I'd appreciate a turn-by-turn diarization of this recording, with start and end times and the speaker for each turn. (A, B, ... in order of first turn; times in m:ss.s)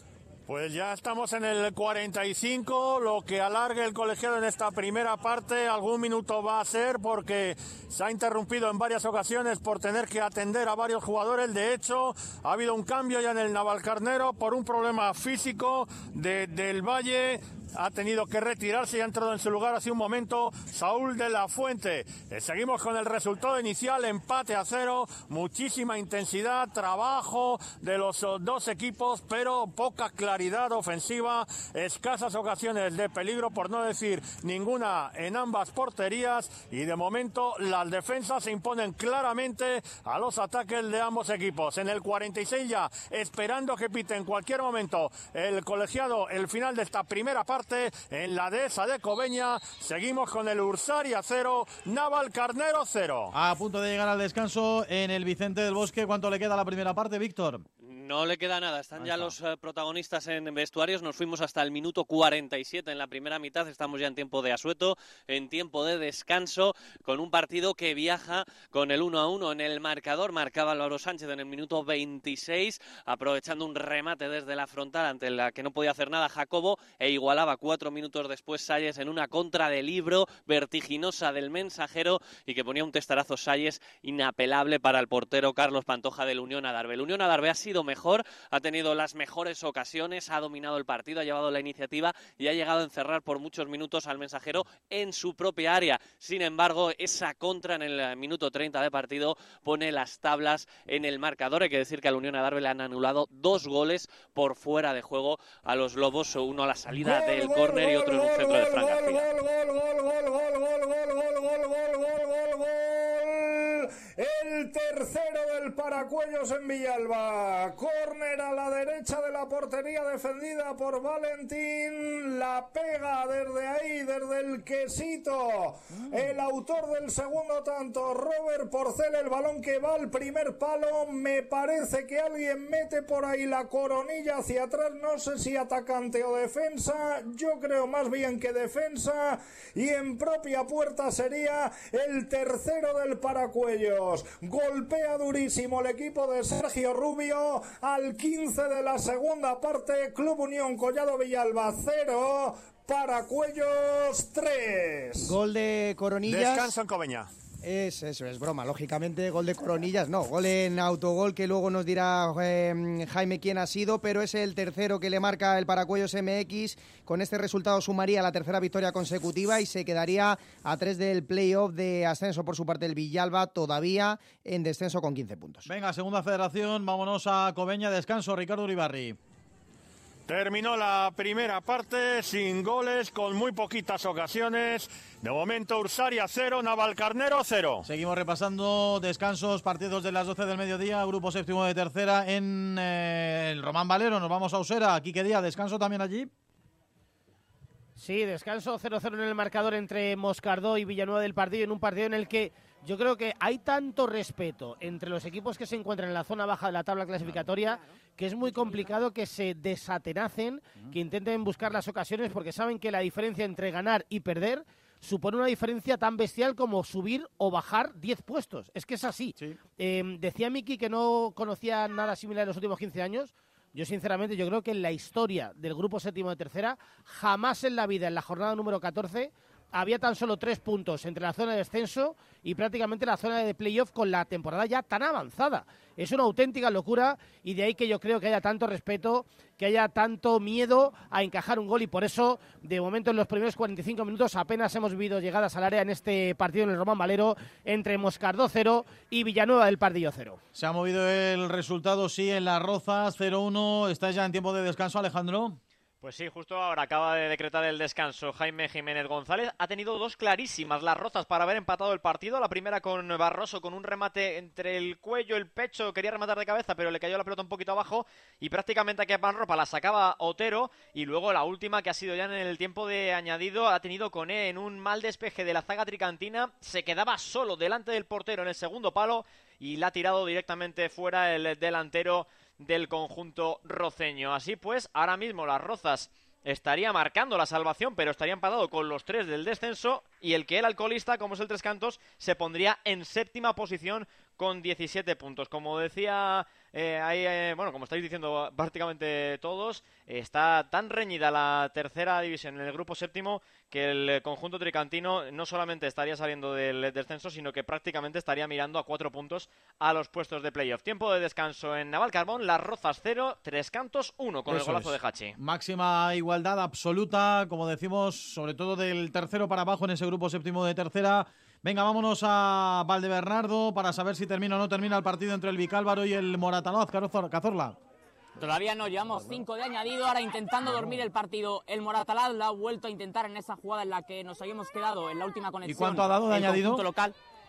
0:00.5-0:53.3 A
0:53.3-0:57.6 B
0:57.8-1:49.3 C
0:59.0-0:59.4 B
1:46.9-2:35.4 D
2:35.2-2:36.7 E
2:36.3-2:37.3 A
2:37.6-2:55.7 E
2:55.7-2:59.2 B
3:00.3-3:07.8 A
3:07.8-3:16.3 B
3:18.0-4:10.4 F
4:10.6-4:15.6 B
4:16.0-5:15.4 G
5:14.5-5:27.8 B
5:28.4-5:37.2 H
5:30.6-5:31.0 B
5:35.7-5:36.9 B